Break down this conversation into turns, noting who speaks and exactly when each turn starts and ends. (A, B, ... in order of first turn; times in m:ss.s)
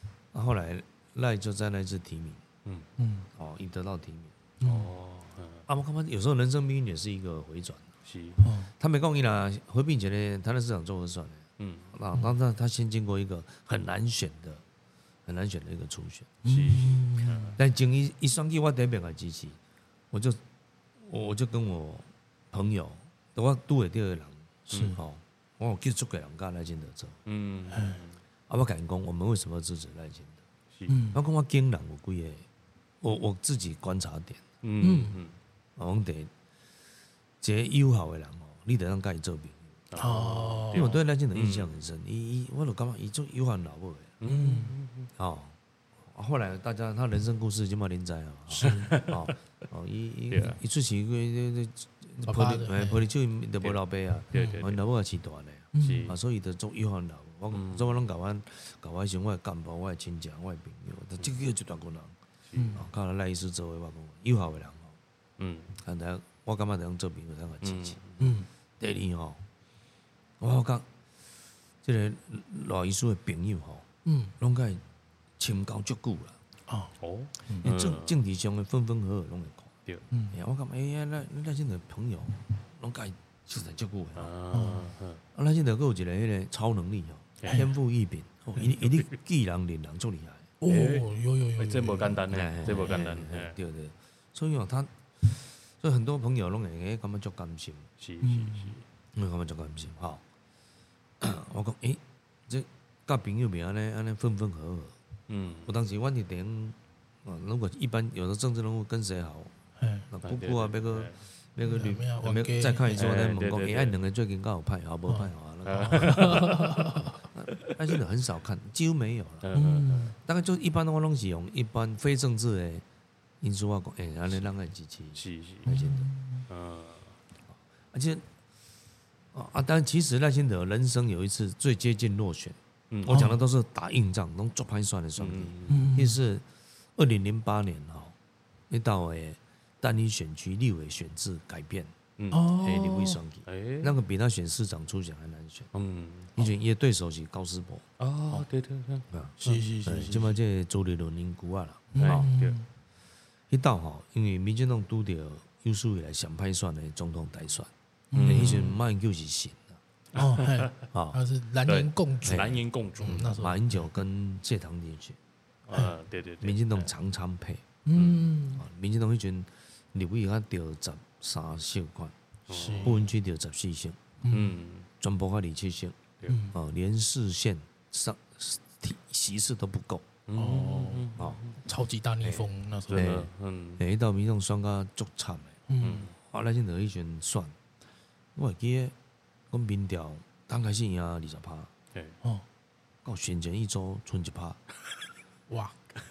0:00.3-0:02.4 A
0:03.0-0:03.3 B
0:03.4-0:04.3 A
0:04.6-0:04.9 B
0:04.6-0:05.7 C
0:05.7-0:07.9 A
0:08.0-0:08.4 C
0:08.4-0:08.7 B
0:08.8-0:14.6 A
0:11.6-0:11.9 C
0:15.3-0:16.3 A
0:16.4-0:17.6 B
0:16.4-0:17.6 C
0:17.6-0:19.6 A
0:20.1-0:20.4 A
0:21.0-0:27.2 A
0:24.7-0:25.0 B
0:27.3-0:28.2 C
0:27.7-0:28.0 B
0:28.5-0:30.4 A
0:30.9-0:31.2 B
0:31.1-0:32.4 A
0:33.0-0:34.4 A
0:34.6-0:35.4 C
0:34.8-0:35.2 B
0:35.8-0:36.3 A
0:37.4-0:39.6 A
0:39.9-0:41.7 C
0:40.0-0:40.9 B
0:40.7-0:44.2 A
0:44.2-0:45.1 C
0:44.2-0:44.8 B
0:45.2-0:45.6 A
0:46.1-1:02.2 A
0:48.5-0:49.0 B
0:48.6-0:49.3 C
0:50.3-0:50.6 C
0:52.3-0:53.0 B
0:54.3-0:54.8 C
0:54.3-0:54.6 B
0:55.7-0:56.1 B
0:55.8-0:56.2 C
0:57.5-0:58.0 C
1:02.5-1:02.8 C
1:02.6-1:02.8 B
1:02.7-1:05.0 A
1:05.4-1:05.7 C
1:05.8-1:08.0 A
1:07.6-1:08.4 C
1:08.2-1:08.5 B
1:08.8-1:09.4 A
1:10.4-1:10.9 A
1:11.8-1:13.9 A
1:14.0-1:14.4 B
1:14.4-1:14.8 A
1:15.4-1:16.4 A
1:16.7-1:16.9 B
1:17.0-1:18.2 C
1:17.6-1:19.7 A
1:20.1-1:20.4 B
1:20.3-1:24.3 A
1:24.2-1:25.2 C
1:24.5-1:24.9 B
1:25.3-1:30.5 A
1:27.4-1:27.7 C
1:30.6-1:33.0 B
1:30.6-1:33.6 C
1:32.3-1:37.9 A
1:38.0-1:38.8 C
1:38.2-1:38.8 B
1:39.1-1:40.2 A
1:41.2-1:45.0 A
1:45.3-1:45.7 C
1:45.6-1:49.5 A
1:49.8-1:50.1 B
1:50.1-1:56.6 A
1:50.2-1:51.2 C
1:51.6-1:53.0 B
1:52.9-1:54.0 C
1:55.1-1:57.2 B
1:55.6-1:56.9 C
1:57.2-1:59.5 A
1:59.4-2:00.2 C
1:59.5-2:00.2 B
2:00.2-2:02.8 A
2:03.4-2:06.1 A
2:05.2-2:05.8 C
2:05.7-2:06.5 B
2:06.5-2:07.2 C
2:07.9-2:08.2 A
2:09.3-2:16.4 A
2:12.9-2:13.2 C
2:13.1-2:13.4 B
2:15.2-2:15.9 C
2:15.7-2:16.2 B
2:17.0-2:18.2 A
2:18.7-2:21.9 A
2:22.2-2:22.5 C
2:22.3-2:23.2 B
2:22.5-2:25.7 A
2:23.5-2:24.0 C
2:25.7-2:26.4 C
2:26.4-2:27.8 A
2:28.0-2:29.1 C
2:29.1-2:32.3 A
2:29.4-2:30.4 B
2:31.9-2:32.7 B
2:32.0-2:32.6 C
2:33.5-2:39.8 A
2:38.1-2:38.8 B
2:38.1-2:38.7 C
2:40.1-2:40.8 C
2:40.2-2:43.9 B
2:40.9-2:41.2 A
2:41.7-2:43.3 C
2:42.2-2:45.2 A
2:45.7-2:46.9 C
2:46.4-2:47.6 A
2:47.8-2:48.6 B
2:48.0-2:48.3 C
2:48.6-2:52.2 A
2:52.5-2:53.0 C
2:52.5-2:53.0 B
2:52.8-2:54.0 A
2:54.2-2:54.6 B
2:54.3-2:54.9 C
2:55.0-2:56.0 A
2:56.3-2:56.6 B
2:56.5-3:00.1 A
3:00.3-3:01.6 C
3:00.3-3:03.1 B
3:02.2-3:05.6 A
3:02.9-3:03.8 C
3:05.7-3:06.1 B
3:05.8-3:06.1 C
3:06.2-3:07.6 A
3:08.4-3:08.9 A
3:09.5-3:11.7 A
3:13.0-3:14.6 A
3:15.5-3:15.8 B